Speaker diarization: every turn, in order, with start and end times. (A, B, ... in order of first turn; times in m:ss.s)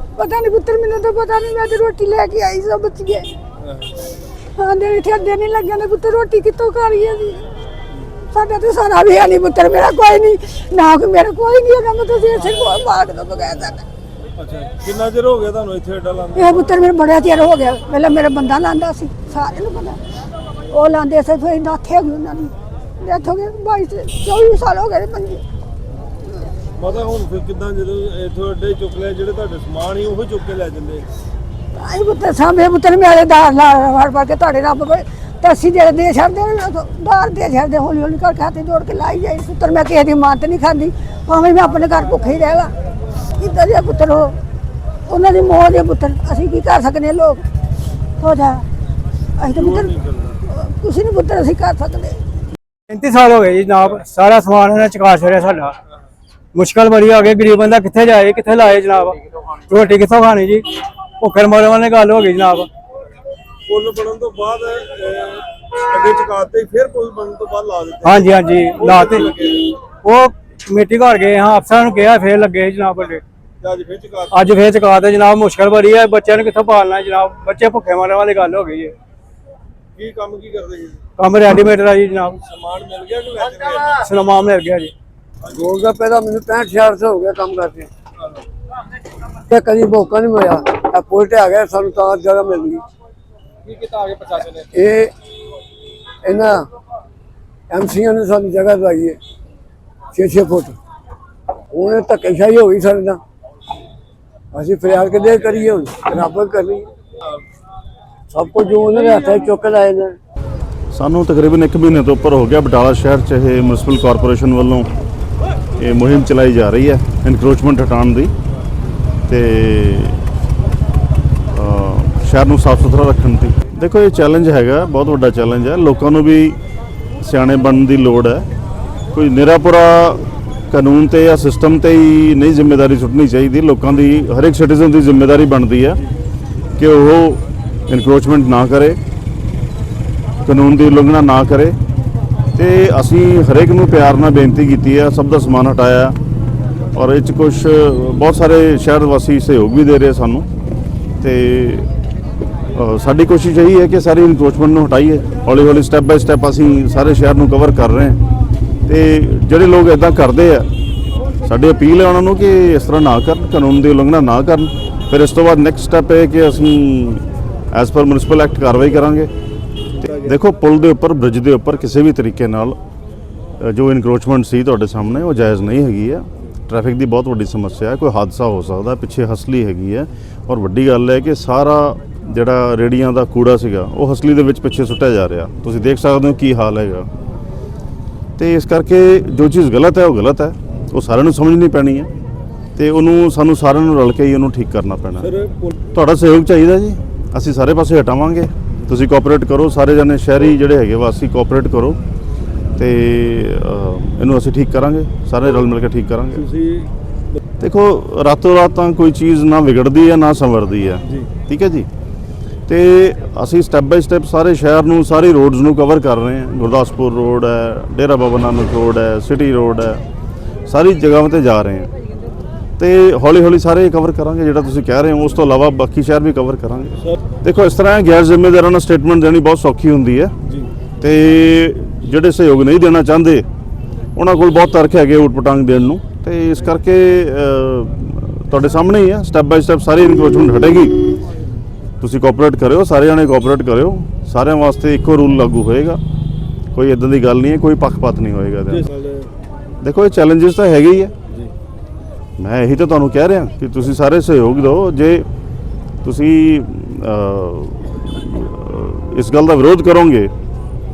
0:00.1-0:03.3 A
0:03.6-0:04.0 B
0:04.6-0:07.4 A
0:08.3-0:13.8 A
0:14.4-0:16.6 B
0:16.4-0:20.0 A
0:20.7-0:25.4 A
0:26.8-0:31.1 B
0:31.8-0:42.7 A
0:43.4-0:44.4 A
0:45.1-0:47.4 A
0:48.2-0:48.6 A
0:49.4-0:50.0 A
0:49.4-0:50.4 B
0:50.5-0:52.2 A
0:52.9-0:55.8 C
0:56.5-1:00.7 C
1:01.2-1:02.7 C
1:03.7-1:09.7 B
1:08.0-1:13.2 C
1:13.6-1:14.5 B
1:14.3-1:19.0 C
1:20.0-1:21.0 B
1:21.2-1:22.4 C
1:22.4-1:24.0 B
1:23.9-1:24.9 C
1:25.5-1:27.9 D
1:29.5-1:32.8 D
1:33.9-1:34.4 C
1:34.6-1:35.1 D
1:36.2-1:36.7 D
1:37.7-1:39.2 D
1:40.1-1:40.8 D
1:41.7-1:43.2 D
1:44.5-1:46.9 D
1:48.3-1:50.2 D
1:50.9-1:54.9 E
1:55.8-1:58.3 E
1:59.3-2:00.2 E
2:01.5-2:06.6 E
2:07.2-2:08.5 E
2:09.1-2:16.0 E
2:16.8-2:19.0 E
2:20.4-2:21.8 E
2:22.6-2:26.2 E
2:26.9-2:30.5 E
2:31.2-2:31.9 E
2:32.7-2:38.2 E
2:38.9-2:40.7 E
2:41.4-2:49.3 E
2:50.0-2:50.4 B
2:50.2-2:52.8 E
2:53.6-3:07.1 E
3:08.4-3:12.1 E
3:12.8-3:15.3 E
3:15.2-3:15.8 B
3:15.9-3:22.0 E
3:22.8-3:26.4 E
3:26.4-3:27.4 B
3:27.6-3:31.9 E
3:32.7-3:40.0 E
3:40.7-3:41.9 E
3:42.8-3:50.3 E
3:50.4-3:50.7 B
3:51.0-3:53.5 E
3:54.2-4:01.2 E
4:02.0-4:06.0 E
4:06.7-4:08.9 E
4:08.7-4:09.3 B
4:09.8-4:11.1 E
4:12.4-4:15.3 E
4:16.0-4:20.3 E